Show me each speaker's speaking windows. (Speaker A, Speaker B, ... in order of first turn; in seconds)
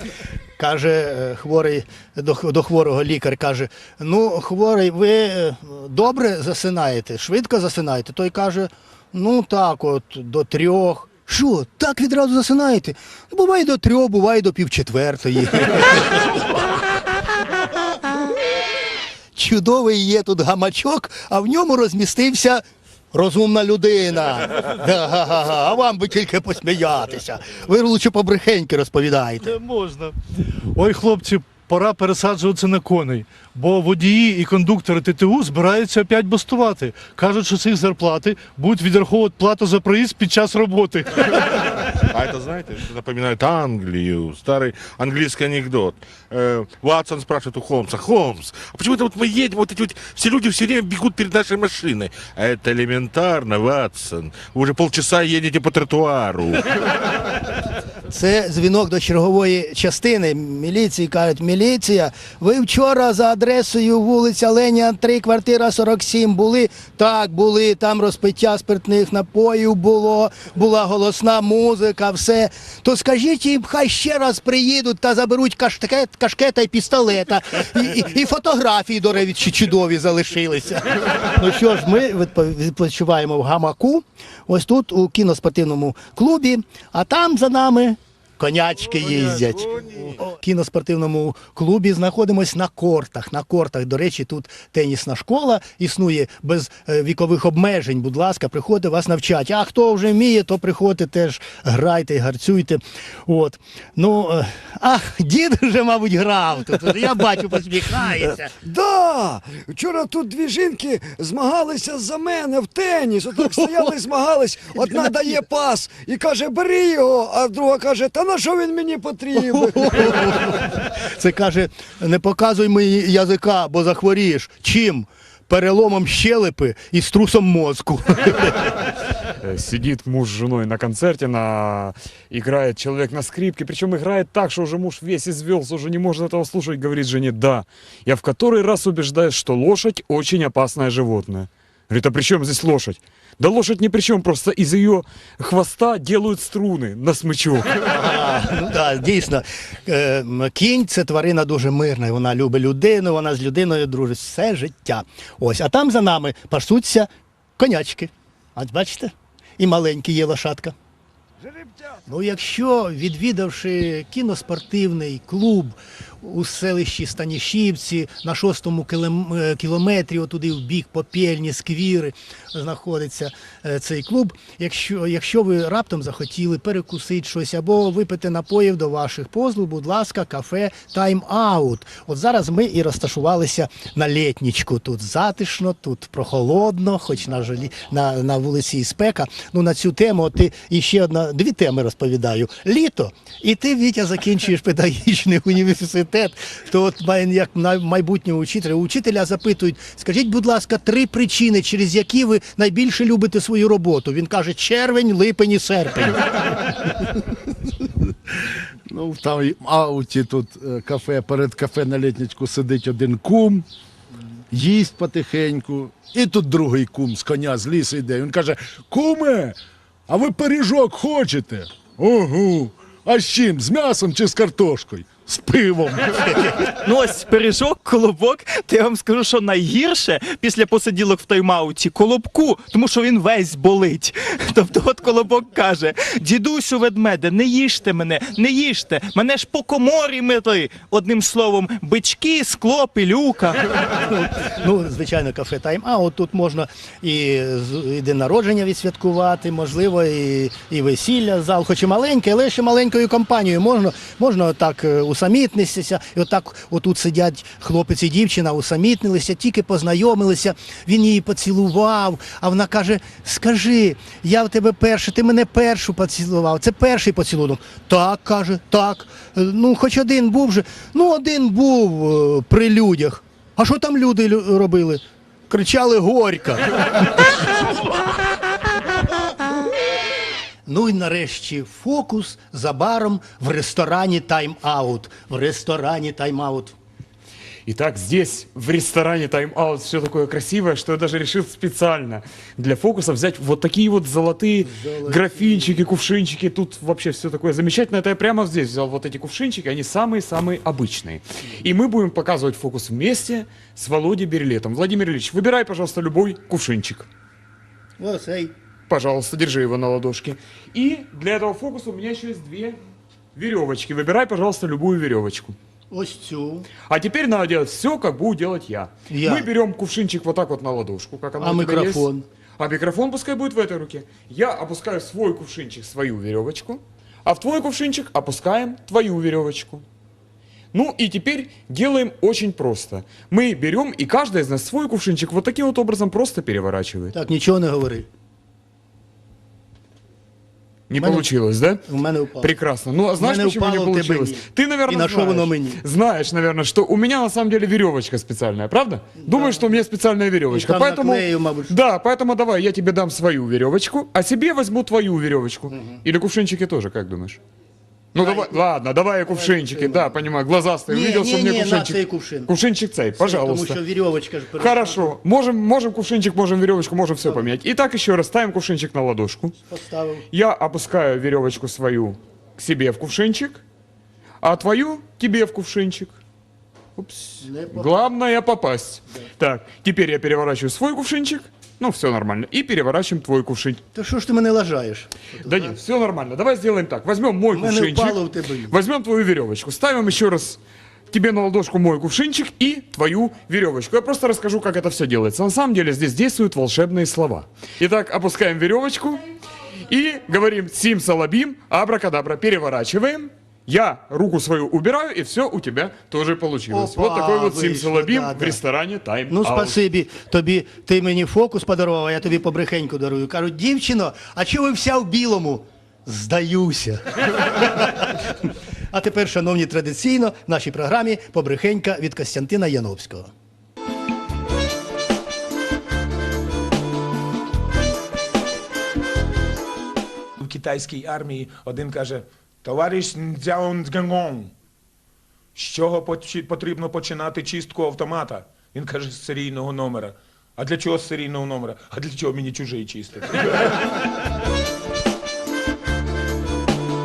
Speaker A: 0.6-16.2, 19.4-29.5, 58.1-108.5, 119.5-128.7, 147.9-160.8, 162.1-206.2, 244.0-277.3, 280.7-286.7, 294.7-295.9, 308.0-308.5, 315.9-316.7, 319.1-319.5, 321.4-322.2, 337.1-338.1, 340.9-341.3, 341.8-342.5, 343.2-345.8, 349.2-349.8, 350.5-351.7, 355.7-356.0, 358.2-358.6, 359.3-360.2, 360.9-362.5, 363.2-365.1, 367.2-367.5, 369.7-370.2, 377.4-378.0, 383.9-385.8, 387.5-388.7, 406.7-408.6, 409.3-417.0, 417.6-418.2, 418.9-423.3
Speaker B: 29.4-30.2, 30.7-41.4
Speaker C: 42.1-56.6
Speaker D: 108.6-120.4, 161.4-162.0
Speaker E: 129.4-147.7, 287.7-307.1, 308.9-312.8, 313.4-315.6, 316.9-322.1, 322.6-329.8, 330.7-337.1, 340.9-341.8, 342.4-357.4, 358.1-363.8, 364.6-369.6, 370.3-373.6, 374.4-376.2, 377.0-383.8, 385.4-390.6, 391.1-399.2, 399.9-409.8
Speaker F: 208.9-213.7, 214.5-219.6, 220.1-226.3
Speaker G: 226.8-243.6
Speaker H: 430.4-434.5, 435.6-443.7